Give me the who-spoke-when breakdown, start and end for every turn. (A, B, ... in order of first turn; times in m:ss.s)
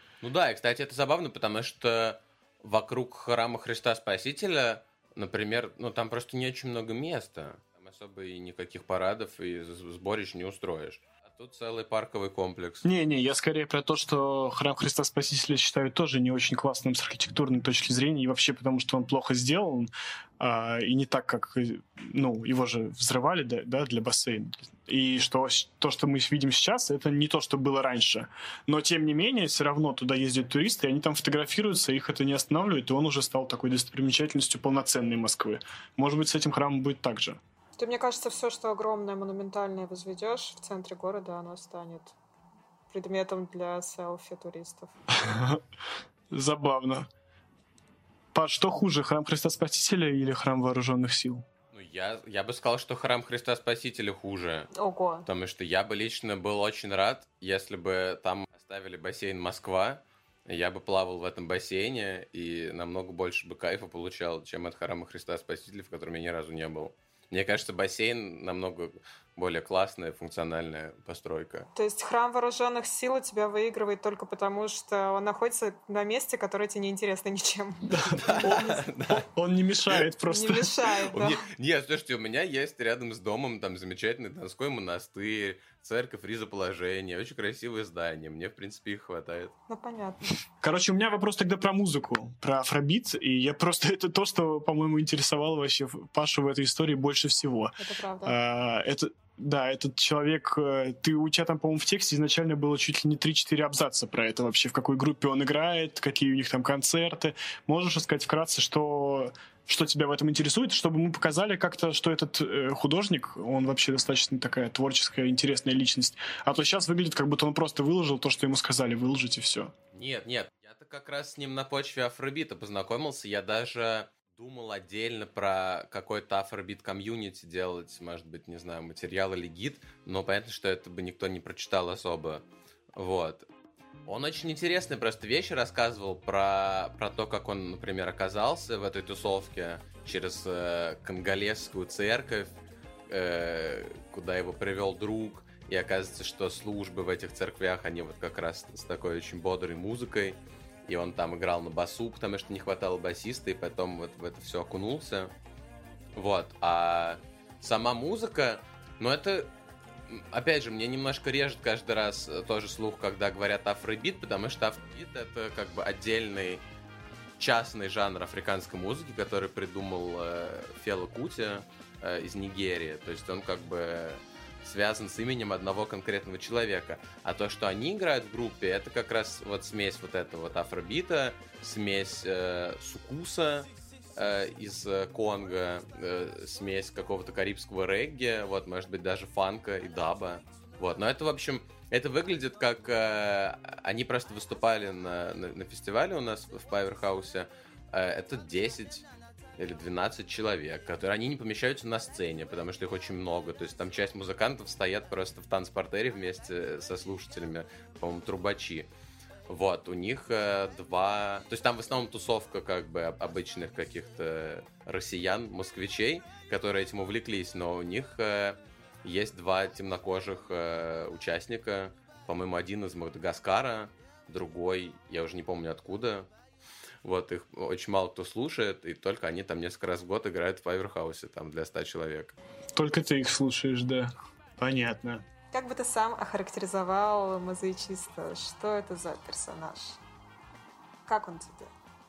0:00.2-0:12.9 A
0:12.8-0:37.4 B
0:37.8-0:42.1 C
0:42.9-0:44.9 C
0:45.1-0:45.6 B
0:46.3-0:47.1 B
0:48.3-0:51.4 B
0:51.7-0:54.7 A
0:54.7-0:55.2 C
0:55.2-1:11.7 A
1:11.7-1:18.8 C
1:17.8-1:20.7 B
1:18.2-1:19.3 A
1:20.3-1:21.4 C
1:21.1-1:29.5 A
1:29.7-1:30.3 C
1:30.6-1:59.7 B
1:37.8-1:38.4 C
1:59.9-2:12.4 A
2:13.0-2:13.5 A
2:14.1-2:22.6 A
2:23.1-2:35.3 A
2:36.2-2:39.5 A
2:40.1-2:46.6 A
2:47.4-3:28.9 A
3:29.5-3:46.3 A
3:47.0-3:52.4 A
3:52.7-3:55.2 B
3:55.5-4:00.0 C
4:01.1-4:01.7 C